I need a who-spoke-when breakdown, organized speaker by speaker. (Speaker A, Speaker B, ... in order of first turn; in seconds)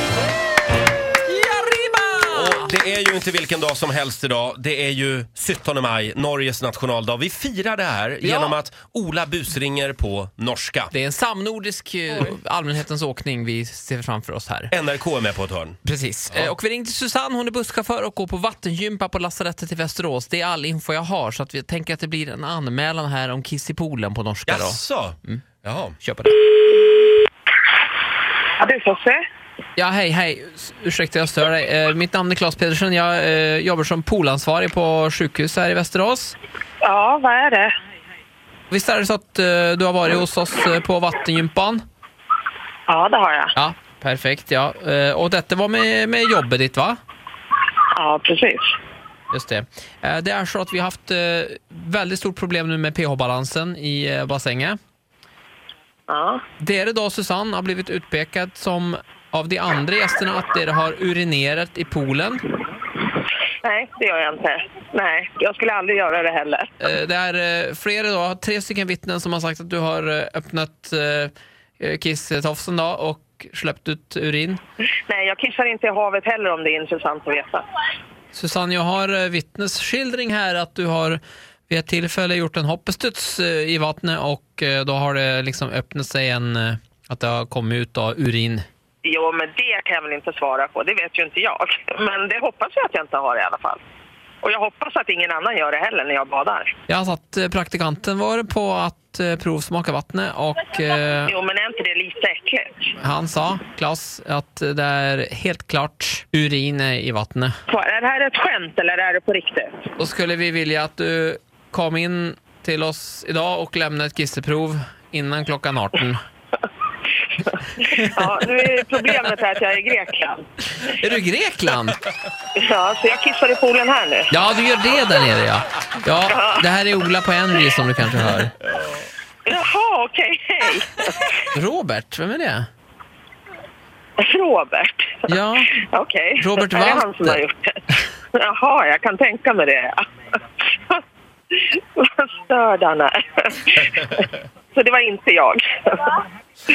Speaker A: 1.3-2.6, 8.2-8.6, 10.9-14.7, 15.8-25.4, 26.0-26.4, 29.8-36.4, 38.7-41.8, 43.5-47.0, 49.3-54.8, 56.6-62.4, 66.8-74.6, 78.3-88.6, 96.9-101.3, 103.0-107.5, 110.0-116.2, 117.8-118.4, 120.8-122.0, 124.3-128.5, 131.5-132.7, 135.3-135.8, 136.4-137.4
Speaker B: 2.3-10.9, 14.7-15.8, 24.5-26.0, 143.9-144.3
Speaker C: 28.6-29.2, 36.8-37.7, 42.9-43.5, 48.0-48.7, 56.1-56.4, 63.6-66.7, 75.1-77.6, 89.0-93.8, 94.4-96.7, 101.4-102.7, 107.7-109.7, 118.1-120.4, 122.5-124.3, 129.4-130.9, 134.2-135.2, 135.9-137.8, 138.4-140.0, 140.8-144.0, 144.7-146.2